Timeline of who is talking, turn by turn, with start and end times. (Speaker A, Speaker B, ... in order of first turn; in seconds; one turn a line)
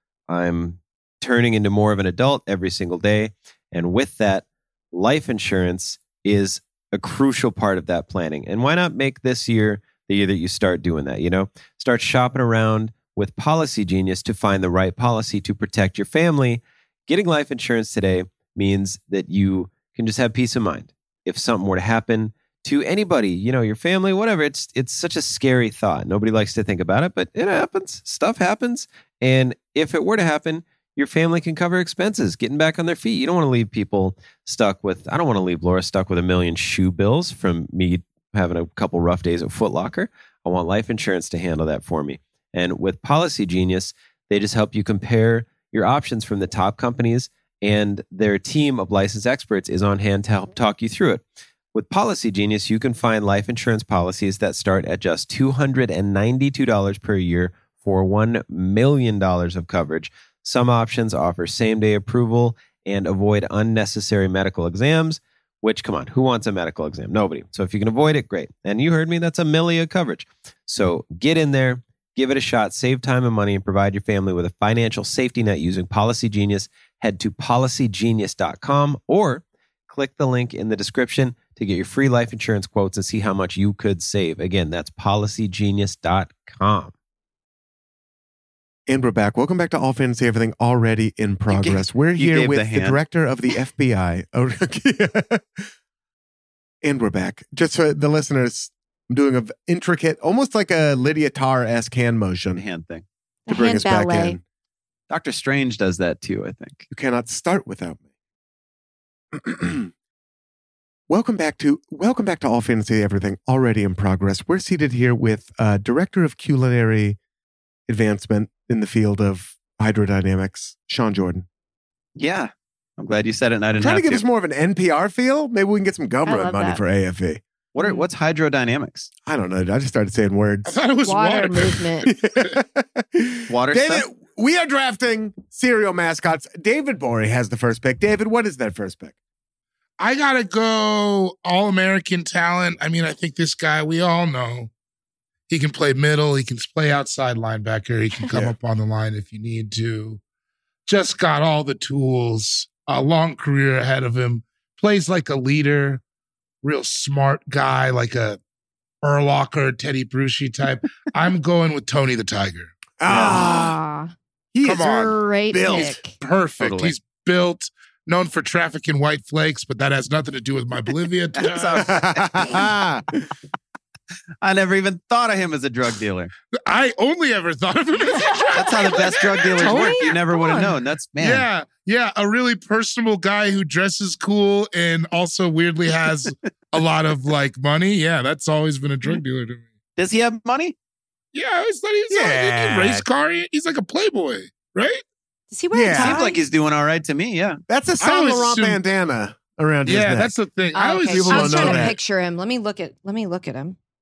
Speaker A: 0.3-86.9
Speaker B: 88.9-95.6
Speaker C: 91.5-93.0
Speaker B: 96.8-102.6
Speaker C: 102.5-103.0
Speaker D: 103.5-104.4
Speaker B: 103.5-104.4
Speaker C: 105.1-106.9
Speaker B: 106.9-108.0
Speaker B: 109.3-109.9
Speaker B: 111.1-117.2
Speaker B: 117.9-121.4
Speaker C: 122.2-124.2
Speaker B: 123.8-127.4
Speaker D: 126.2-126.8
Speaker C: 127.7-129.1
Speaker B: 129.2-130.8
Speaker E: 130.7-132.5
Speaker D: 131.0-132.1
Speaker B: 132.1-139.1
Speaker C: 133.5-134.0
Speaker E: 140.0-144.7
Speaker E: 145.5-150.2
Speaker B: 148.3-148.5
Speaker E: 150.9-156.0
Speaker E: 156.6-158.4
Speaker E: 159.0-162.7
Speaker B: 163.0-163.8
Speaker D: 163.1-164.1
Speaker B: 164.5-166.0
Speaker E: 164.6-165.1
Speaker D: 164.9-166.1
Speaker E: 165.7-172.0
Speaker C: 166.6-166.9
Speaker C: 171.4-172.6
Speaker B: 171.8-173.3
Speaker C: 174.4-176.3
Speaker E: 176.6-180.1
Speaker C: 178.5-181.4
Speaker D: 179.6-180.7
Speaker E: 181.2-189.7
Speaker C: 190.0-190.7
Speaker E: 191.3-195.0
Speaker B: 192.1-193.1
Speaker D: 195.5-196.4
Speaker B: 195.7-196.2
Speaker C: 196.0-197.6
Speaker B: 197.7-200.3
Speaker E: 198.0-198.8
Speaker E: 199.8-201.9
Speaker D: 200.7-203.8
Speaker B: 201.1-201.9